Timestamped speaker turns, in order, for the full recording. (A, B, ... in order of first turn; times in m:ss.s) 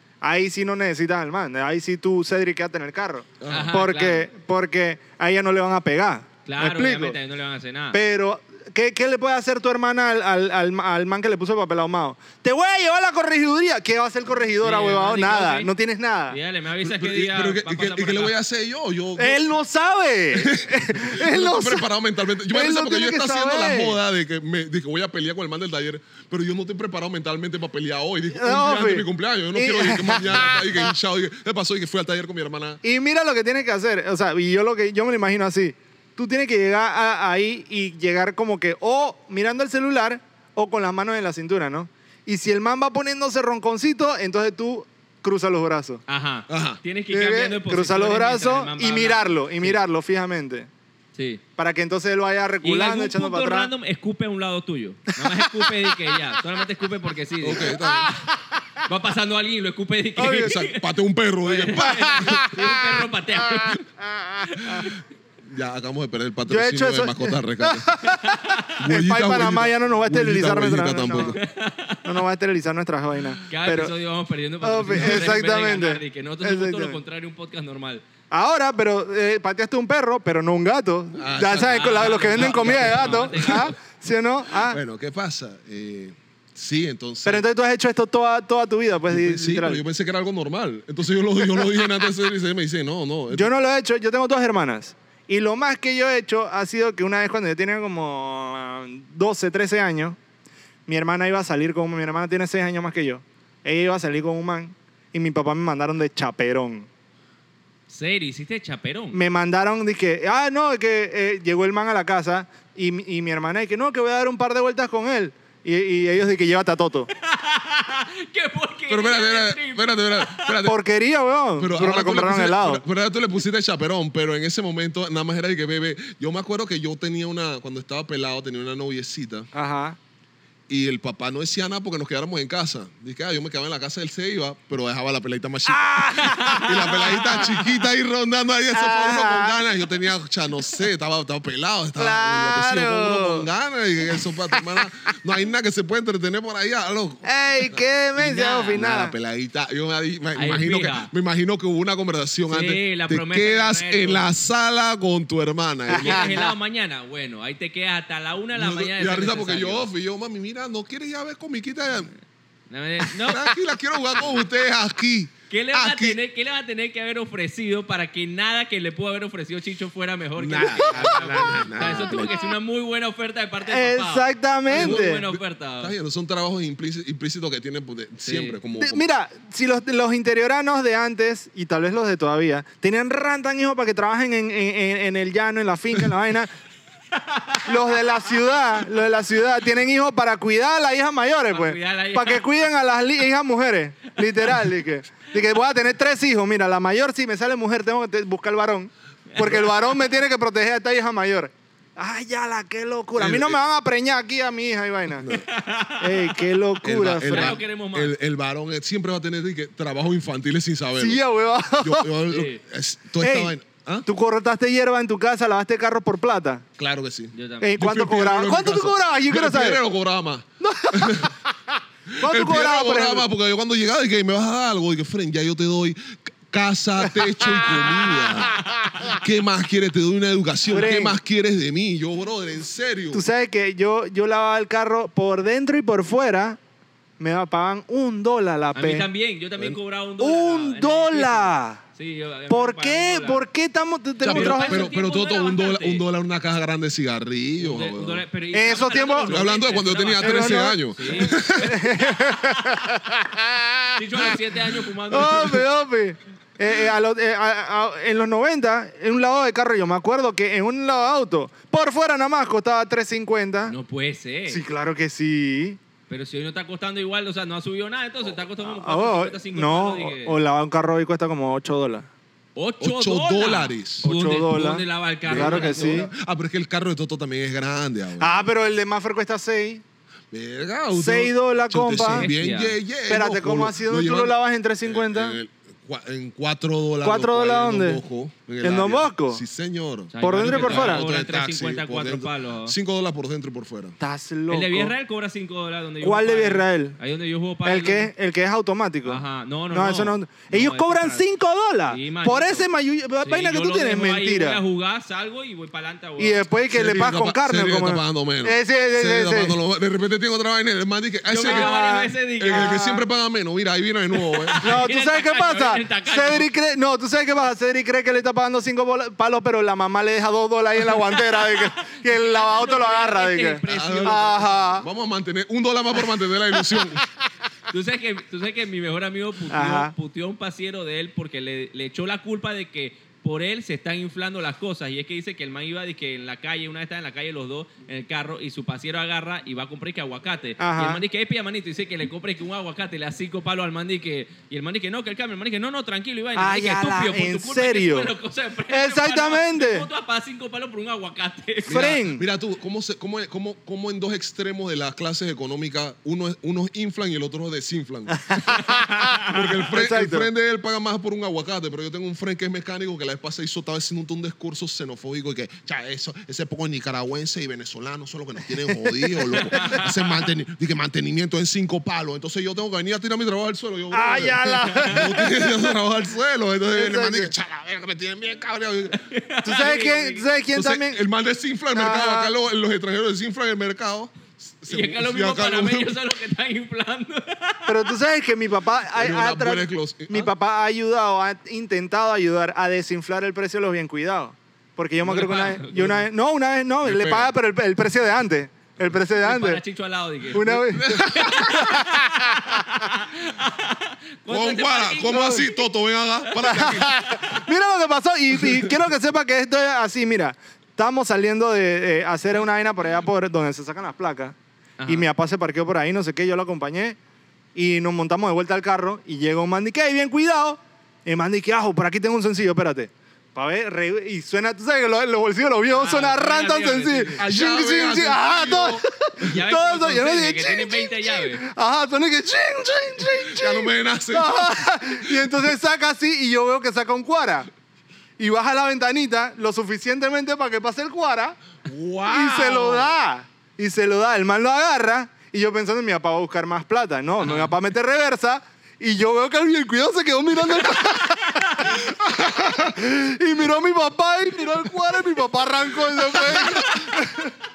0:00.2-0:07.2 A
0:03.4-0:03.7 B
0:03.5-0:04.3 C
0:06.4-0:08.0 C
0:07.9-0:16.4 A
0:14.6-0:15.7 C
0:16.3-0:18.3 C
0:16.8-0:19.4 B
0:19.2-0:21.9 A
0:20.3-0:32.8 B
0:22.5-0:24.0 A
0:28.3-0:30.9 A
0:32.8-0:46.0 A
0:46.1-0:49.8 C
0:46.5-0:46.8 B
0:47.1-0:50.7 A
0:51.1-0:51.4 C
0:51.6-0:53.7 A
0:52.6-0:57.8 C
0:55.1-0:56.4 A
0:57.4-0:58.2 B
0:57.6-0:58.8 A
0:58.8-1:00.9 C
1:00.2-1:00.6 A
1:00.3-1:02.5 B
1:01.4-1:03.9 C
1:01.7-1:03.0 A
1:04.4-1:04.9 A
1:04.5-1:04.9 C
1:04.6-1:08.0 B
1:06.4-1:11.4 A
1:08.1-1:08.7 C
1:08.8-1:11.4 B
1:11.3-1:12.2 C
1:12.0-1:13.9 A
1:13.5-1:18.0 C
1:14.6-1:17.0 A
1:14.9-1:15.3 B
1:18.3-1:24.8 A
1:21.2-1:23.7 B
1:21.6-1:23.7 C
1:24.5-1:27.4 B
1:27.2-1:29.8 A
1:29.1-1:33.5 B
1:33.3-1:40.2 A
1:40.9-1:46.9 A
1:47.9-1:49.2 C
1:49.1-1:57.1 A
1:57.1-2:00.6 C
1:58.9-2:00.8 B
2:00.6-2:02.8 A
2:01.6-2:09.5 B
2:09.5-2:10.0 A
2:10.7-2:27.8 B
2:15.7-2:17.6 A
2:16.4-2:16.8 C
2:18.7-2:19.6 A
2:22.0-2:23.5 A
2:24.2-2:24.9 A
2:27.2-2:29.1 A
2:28.2-2:28.8 C
2:28.7-2:36.4 B
2:30.3-2:31.1 C
2:32.5-2:34.2 C
2:35.9-2:36.5 A
2:35.9-2:39.8 C
2:38.5-2:42.1 B
2:42.7-2:43.5 C
2:43.2-2:46.2 B
2:45.5-2:55.9 C
2:50.4-2:52.4 B
2:50.8-2:52.3 A
2:53.6-2:55.2 A
2:54.7-2:59.0 B
2:58.2-2:58.6 C
2:58.8-3:06.5 A
3:07.1-3:08.0 C
3:07.6-3:25.4 A
3:11.5-3:12.6 C
3:19.3-3:19.8 C
3:23.2-3:23.6 B
3:25.2-3:25.4 B
3:25.3-3:26.4 C
3:26.0-3:27.6 A
3:26.8-3:34.0 B
3:27.2-3:28.1 C
3:31.0-3:32.1 A
3:32.3-3:32.6 C
3:33.2-3:33.5 A
3:34.0-3:36.6 A
3:36.8-3:41.4 B
3:37.3-3:37.7 C
3:37.6-3:39.8 A
3:40.6-3:43.2 A
3:42.1-3:53.2 B
3:47.0-3:48.3 A
3:48.8-3:49.1 A
3:50.7-3:51.2 A
3:53.1-3:56.6 A
3:57.2-3:59.1 A
3:58.7-4:03.4 C
4:00.2-4:01.8 A
4:02.5-4:04.9 A
4:04.2-4:06.0 C
4:04.2-4:08.2 B
4:07.6-4:12.2 C
4:08.5-4:09.5 A
4:09.2-4:11.8 B
4:10.2-4:23.8 A
4:14.0-4:15.6 C
4:23.7-4:24.6 C
4:24.5-4:25.8 A
4:26.1-4:30.4 C
4:28.6-4:32.1 A
4:32.6-4:36.0 C
4:32.8-4:34.0 B
4:34.0-4:36.1 A
4:35.2-4:38.5 B
4:38.2-4:39.8 A
4:40.3-4:54.0 B
4:40.9-4:42.3 A
4:42.0-4:42.8 C
4:43.1-4:45.4 A
4:47.0-4:48.0 A
4:48.6-4:49.4 A
4:50.1-4:52.7 C
4:50.2-4:51.0 A
4:54.0-4:54.9 A
4:54.5-4:58.1 C
4:56.0-4:57.0 A
4:57.6-5:04.6 A
4:59.0-5:01.2 C
5:01.9-5:02.7 C
5:03.2-5:06.5 C
5:06.2-5:09.6 A
5:06.7-5:11.7 B
5:11.3-5:12.8 C
5:11.4-5:13.0 A
5:12.4-5:14.8 B
5:14.2-5:16.5 C
5:14.6-5:24.8 A
5:20.8-5:24.8 C
5:23.7-5:27.0 B
5:26.6-5:26.8 A
5:27.7-5:52.0 C
5:29.5-5:29.9 A
5:40.6-5:41.0 A
5:46.4-5:48.1 A
5:48.7-5:49.9 A
5:51.6-5:52.2 A
5:51.7-5:58.6 B
5:58.1-6:00.3 A
5:59.2-6:19.0 B
6:08.8-6:09.8 A
6:09.5-6:10.1 C
6:13.9-6:15.7 A
6:16.7-6:17.3 A
6:19.0-6:20.3 C
6:19.4-6:21.0 A
6:20.5-6:25.9 B
6:21.7-6:22.3 A
6:24.7-6:27.9 C
6:27.7-6:39.6 A
6:28.9-6:30.3 B
6:35.0-6:35.8 C
6:35.8-6:36.0 B
6:36.8-6:37.3 B
6:39.2-6:40.5 C
6:40.3-6:42.9 A
6:40.3-6:41.8 B
6:41.1-6:45.6 C
6:44.3-6:47.3 B
6:45.1-6:45.4 A
6:46.3-6:57.0 A
6:48.3-6:48.7 B
6:54.8-6:55.1 C
6:57.5-7:17.5 A
7:05.7-7:07.2 C
7:07.2-7:09.3 B
7:09.2-7:11.4 C
7:13.0-7:15.5 B
7:18.2-7:21.4 A
7:21.6-7:23.0 B
7:22.0-7:37.4 A
7:27.2-7:27.5 C
7:31.3-7:31.7 C
7:31.9-7:32.7 B
7:36.1-7:37.0 C